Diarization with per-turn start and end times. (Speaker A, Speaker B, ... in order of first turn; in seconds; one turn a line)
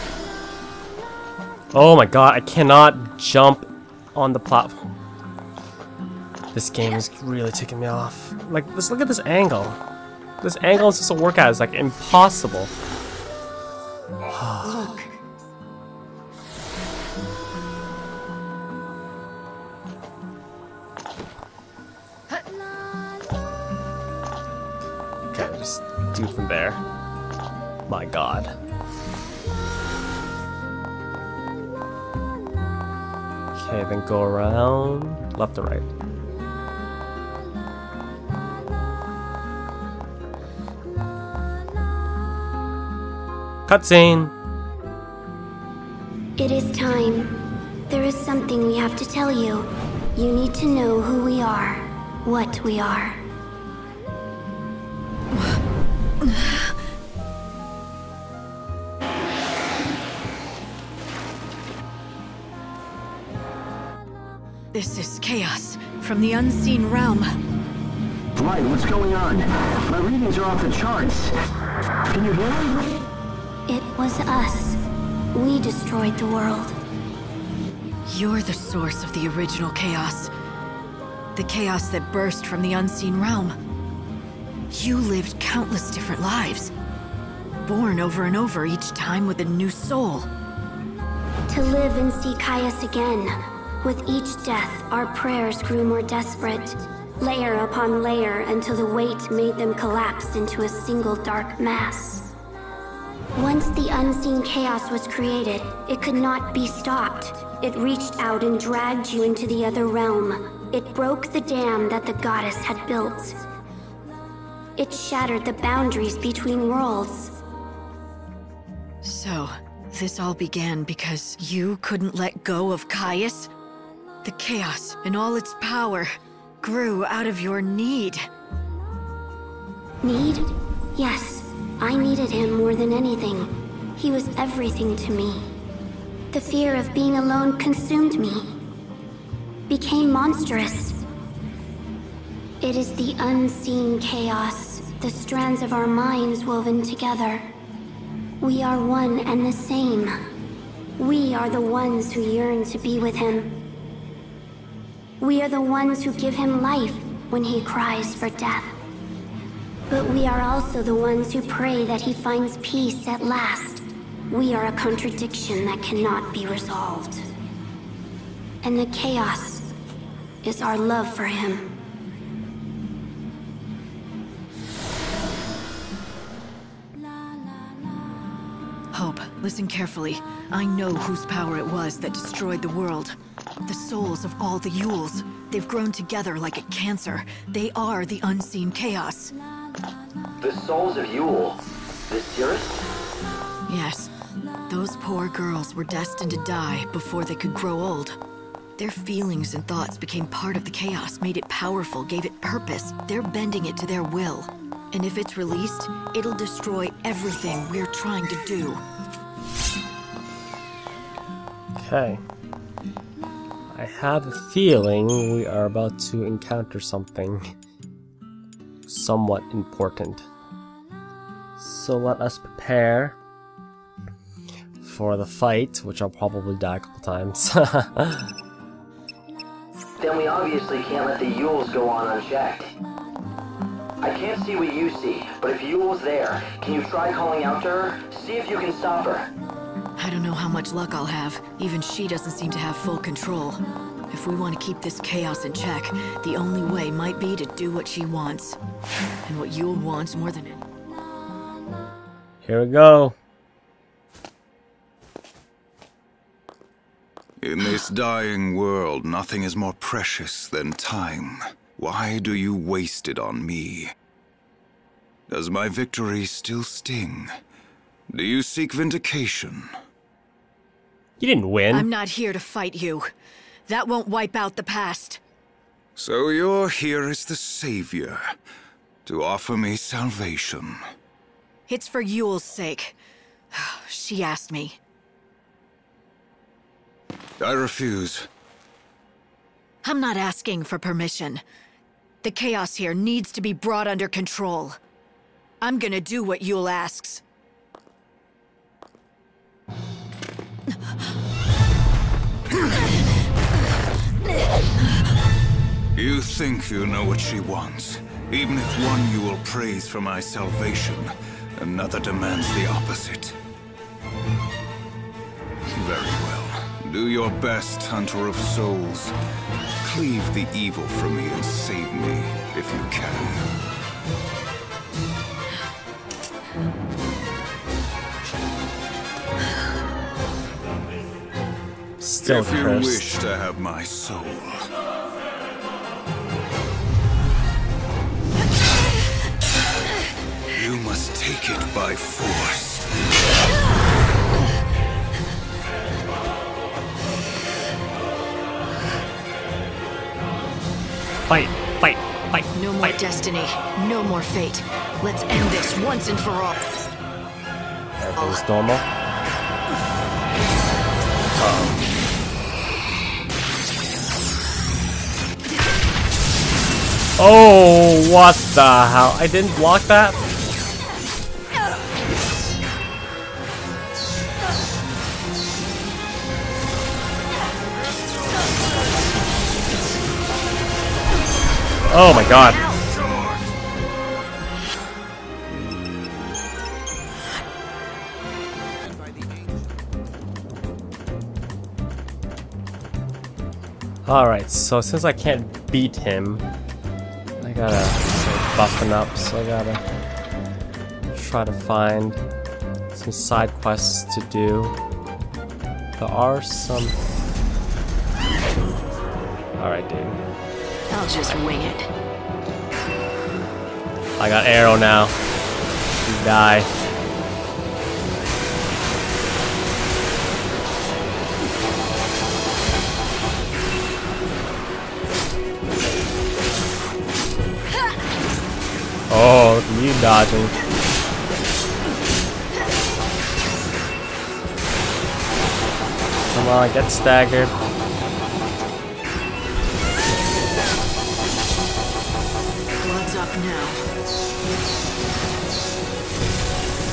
Speaker A: 1.7-4.8
Speaker A: 6.5-9.8
Speaker A: 10.4-12.7
Speaker A: 14.3-15.0
Speaker B: 14.7-15.1
Speaker A: 25.3-26.8
Speaker A: 27.9-28.5
Speaker A: 33.5-35.9
Speaker A: 43.7-44.3
Speaker C: 46.4-53.2
Speaker B: 56.2-56.7
Speaker B: 64.7-67.3
Speaker D: 68.3-71.3
Speaker D: 72.1-73.0
Speaker C: 73.7-74.8
Speaker C: 75.3-76.8
Speaker B: 78.1-80.3
Speaker B: 81.3-83.5
Speaker B: 84.7-86.7
Speaker B: 87.6-90.3
Speaker C: 91.5-102.3
Speaker C: 103.3-113.4
Speaker C: 114.8-117.3
Speaker B: 119.0-123.5
Speaker B: 124.2-128.2
Speaker C: 130.0-135.5
Speaker C: 136.3-138.6
Speaker C: 139.7-141.0
Speaker C: 142.6-147.5
Speaker C: 148.4-150.2
Speaker C: 151.0-153.7
Speaker C: 155.2-158.7
Speaker C: 159.9-167.2
Speaker C: 168.6-169.7
Speaker C: 170.4-171.7
Speaker B: 178.9-189.3
Speaker E: 190.4-192.8
Speaker B: 193.7-194.1
Speaker B: 194.7-198.2
Speaker B: 198.8-208.8
Speaker A: 211.8-212.2
Speaker A: 213.7-217.5
Speaker A: 218.9-220.2
Speaker A: 221.6-223.2
Speaker A: 224.8-228.3
Speaker E: 230.0-232.7
Speaker E: 234.0-239.3
Speaker B: 240.0-248.6
Speaker B: 249.2-250.6
Speaker A: 252.4-253.2
Speaker F: 257.4-263.9
Speaker F: 265.3-267.3
Speaker F: 268.1-269.7
Speaker A: 271.2-271.9
Speaker B: 271.7-273.1
Speaker B: 273.7-275.2
Speaker F: 275.9-278.2
Speaker F: 279.1-280.8
Speaker B: 281.7-282.9
Speaker B: 283.5-284.8
Speaker F: 287.4-288.3
Speaker B: 289.8-291.4
Speaker B: 292.2-294.8
Speaker B: 295.6-297.2
Speaker F: 305.9-313.4
Speaker F: 315.6-319.1
Speaker F: 319.8-323.5
Speaker A: 332.0-333.0
Speaker F: 332.2-334.6
Speaker F: 340.5-342.9
Speaker A: 351.3-352.9
Speaker B: 352.5-356.6
Speaker A: 358.0-358.8
Speaker A: 361.4-361.8
Speaker A: 367.2-370.2
Speaker A: 381.9-382.6
Speaker F: 383.0-383.3
Speaker A: 394.1-396.4
Speaker A: 397.4-399.8
Speaker A: 401.1-402.2
Speaker A: 402.9-404.7
Speaker A: 406.0-406.9
Speaker A: 409.6-410.2
Speaker B: 410.9-411.9
Speaker A: 414.2-415.1
Speaker A: 416.0-416.7
Speaker A: 429.1-430.5
Speaker A: 436.3-437.5
Speaker B: 442.8-443.8